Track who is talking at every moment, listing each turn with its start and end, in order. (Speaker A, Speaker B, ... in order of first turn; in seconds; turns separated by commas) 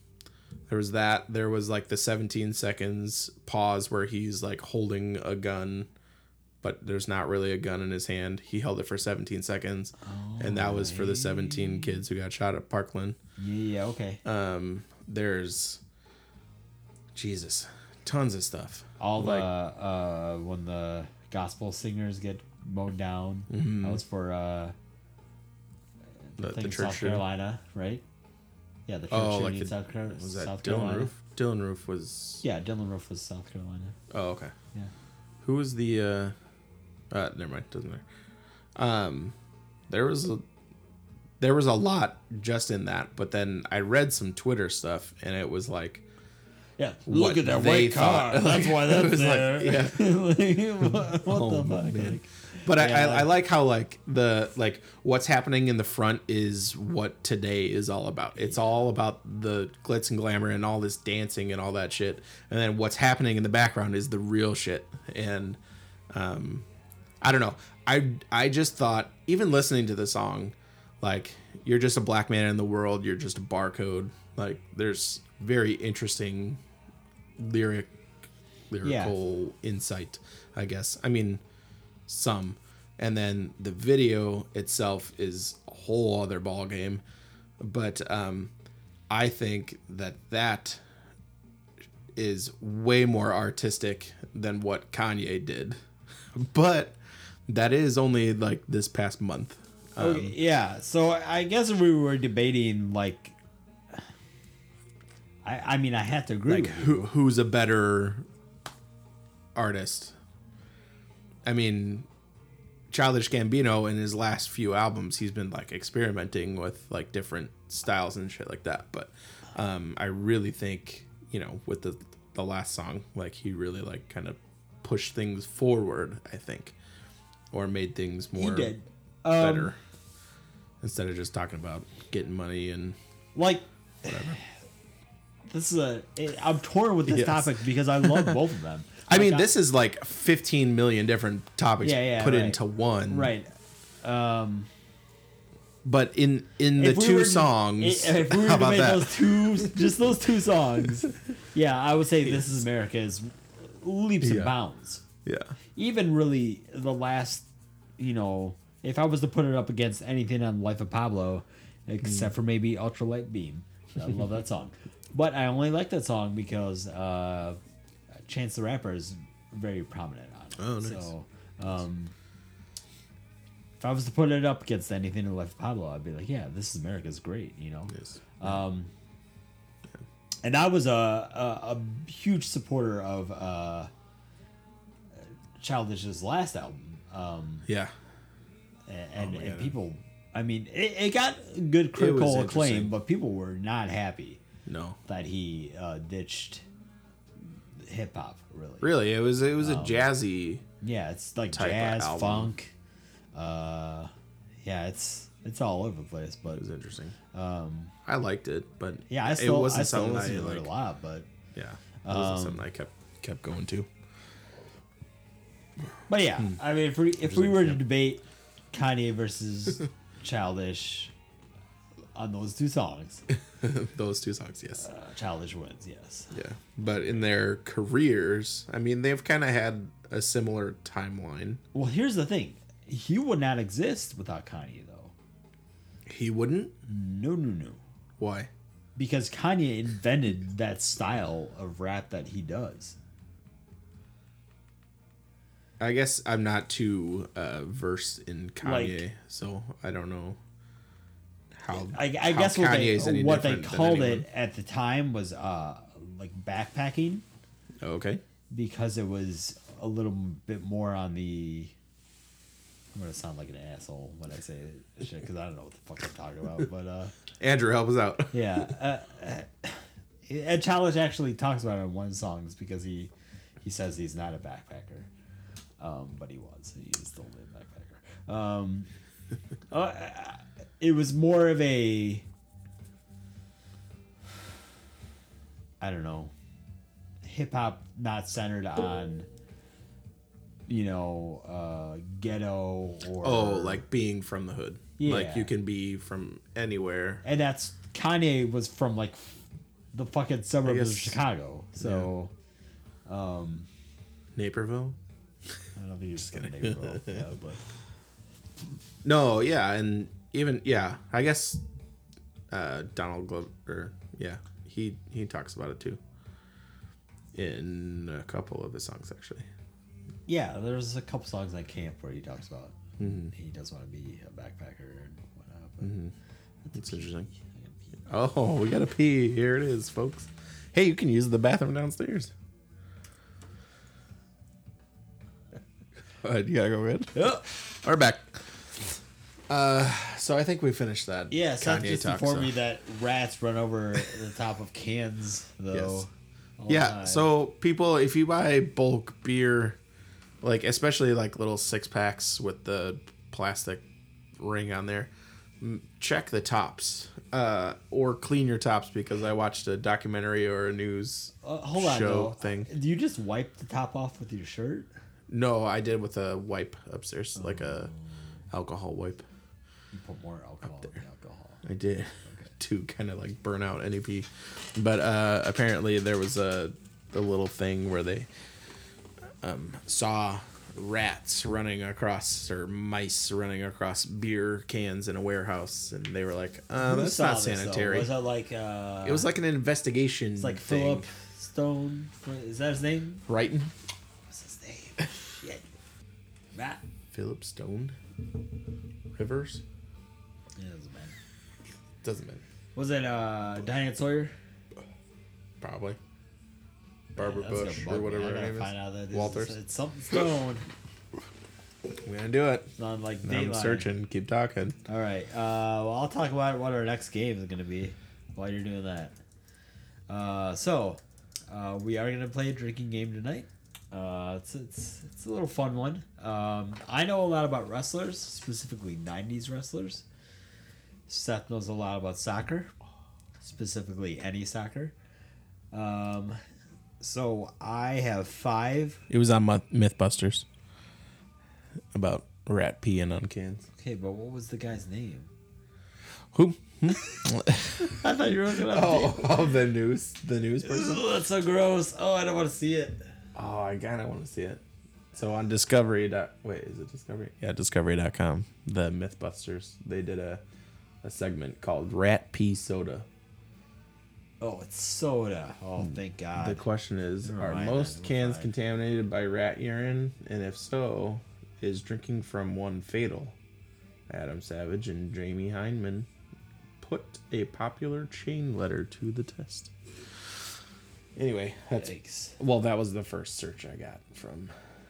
Speaker A: 0.7-5.9, Speaker A: 6.6-13.2, Speaker B: 10.0-12.0, Speaker B: 13.4-14.2, Speaker A: 14.2-15.8, Speaker A: 17.1-19.5, Speaker B: 19.0-24.7, Speaker A: 23.5-24.0, Speaker B: 26.3-28.0, Speaker A: 26.4-27.2, Speaker B: 28.9-31.1, Speaker A: 29.1-32.4, Speaker B: 32.4-34.0, Speaker A: 34.1-34.5, Speaker A: 35.4-36.3, Speaker A: 37.1-38.0, Speaker A: 38.8-39.4, Speaker A: 39.9-40.4, Speaker A: 41.4-46.0, Speaker B: 46.8-53.3, Speaker A: 47.1-50.2, Speaker A: 50.8-65.6, Speaker A: 66.1-66.7, Speaker A: 67.2-76.6, Speaker A: 77.4-77.9, Speaker A: 78.7-81.4, Speaker B: 78.8-79.1, Speaker A: 82.1-87.0, Speaker A: 87.6-88.5, Speaker A: 89.1-90.8, Speaker A: 92.1-95.8, Speaker A: 96.3-100.4, Speaker B: 100.0-103.3, Speaker B: 105.4-107.1, Speaker A: 106.5-108.2, Speaker A: 109.5-110.2, Speaker A: 111.4-112.1, Speaker A: 112.9-126.7, Speaker A: 127.5-128.7, Speaker B: 128.3-129.7, Speaker A: 129.3-129.8, Speaker A: 130.8-133.0, Speaker B: 133.3-134.4, Speaker A: 134.1-134.4, Speaker B: 135.5-139.5, Speaker A: 137.1-137.5, Speaker A: 138.0-138.4, Speaker A: 139.1-143.3, Speaker B: 141.8-143.5, Speaker B: 144.0-144.7, Speaker A: 145.8-149.8, Speaker B: 146.8-155.0, Speaker A: 154.2-154.5, Speaker A: 155.2-155.5, Speaker B: 155.7-157.5, Speaker B: 158.0-167.6, Speaker A: 162.0-162.3, Speaker B: 168.2-172.1, Speaker A: 170.6-171.1, Speaker B: 173.8-178.9, Speaker A: 177.9-178.2, Speaker B: 180.4-183.9, Speaker B: 185.6-187.7, Speaker A: 187.7-187.9, Speaker B: 188.9-194.4, Speaker A: 189.2-189.7, Speaker A: 191.9-192.9, Speaker A: 194.7-195.0, Speaker B: 195.1-196.6, Speaker B: 197.8-198.9, Speaker A: 198.8-200.6, Speaker B: 199.6-200.1, Speaker B: 200.8-202.7, Speaker A: 201.5-202.5, Speaker B: 203.3-204.1, Speaker B: 204.6-206.6, Speaker A: 206.5-207.1, Speaker B: 207.3-207.9, Speaker A: 208.1-210.7, Speaker B: 209.1-211.3, Speaker A: 211.5-213.9, Speaker B: 212.0-212.6, Speaker B: 216.1-221.1, Speaker A: 217.3-217.8, Speaker B: 222.1-223.2, Speaker A: 223.3-224.8, Speaker B: 224.8-226.3, Speaker A: 226.3-231.6, Speaker B: 231.7-235.1, Speaker A: 236.1-236.7, Speaker B: 236.8-237.8, Speaker A: 238.2-238.5, Speaker B: 238.9-243.0, Speaker A: 245.8-250.4, Speaker B: 248.6-249.0, Speaker A: 251.5-254.2, Speaker B: 251.9-257.2, Speaker A: 257.8-258.2, Speaker B: 258.5-261.7, Speaker B: 262.9-267.1, Speaker A: 267.4-268.6, Speaker B: 268.3-273.1, Speaker B: 273.6-275.1, Speaker B: 275.8-278.9, Speaker B: 279.7-282.2, Speaker B: 285.8-286.3, Speaker B: 287.2-289.3, Speaker B: 290.7-293.8, Speaker A: 293.2-297.2, Speaker B: 295.0-295.5, Speaker B: 297.2-299.4, Speaker B: 299.9-302.3, Speaker A: 300.6-301.2, Speaker A: 301.8-302.1, Speaker B: 303.1-303.7, Speaker A: 304.4-305.0, Speaker B: 305.8-307.6, Speaker A: 306.2-307.2, Speaker A: 309.0-311.6, Speaker A: 312.5-316.0, Speaker A: 317.3-319.5, Speaker B: 320.3-326.0, Speaker A: 323.0-323.3, Speaker A: 325.8-326.1, Speaker B: 326.6-328.3, Speaker A: 326.7-327.3, Speaker A: 328.1-332.3, Speaker A: 336.2-338.3, Speaker B: 337.1-337.4, Speaker A: 339.5-342.5, Speaker B: 341.3-347.3, Speaker A: 345.7-346.0, Speaker A: 346.7-349.8, Speaker A: 350.4-353.8, Speaker A: 354.4-362.7, Speaker B: 361.4-364.9, Speaker A: 365.3-367.9, Speaker B: 367.4-368.0, Speaker A: 368.5-369.2, Speaker B: 369.9-371.6, Speaker A: 371.6-378.3, Speaker B: 372.2-372.5, Speaker A: 379.4-388.1, Speaker B: 386.8-389.3, Speaker A: 389.0-391.1, Speaker B: 390.4-393.2, Speaker A: 393.3-393.7, Speaker B: 394.3-395.6, Speaker B: 396.5-396.8, Speaker A: 397.1-397.9, Speaker A: 399.1-399.6, Speaker B: 400.6-401.1, Speaker A: 402.0-402.4, Speaker B: 402.7-404.3, Speaker A: 405.6-406.0, Speaker A: 407.1-409.6, Speaker B: 407.1-410.6, Speaker A: 412.0-412.7, Speaker B: 412.8-413.9, Speaker A: 413.2-414.8, Speaker B: 414.9-419.1, Speaker B: 420.1-430.0, Speaker B: 431.1-432.7, Speaker B: 433.4-434.9, Speaker B: 435.7-436.4, Speaker B: 437.0-439.0, Speaker A: 439.1-440.4, Speaker A: 441.9-443.6, Speaker B: 443.8-445.3, Speaker A: 446.3-448.0, Speaker B: 447.8-449.5, Speaker A: 448.6-451.0, Speaker B: 450.6-453.0, Speaker A: 453.3-454.6, Speaker A: 455.1-460.4, Speaker A: 461.0-463.1, Speaker B: 464.4-466.6, Speaker A: 466.4-473.4, Speaker B: 467.2-468.5, Speaker A: 474.1-476.1, Speaker A: 476.8-479.7, Speaker A: 481.1-484.5, Speaker B: 481.8-482.4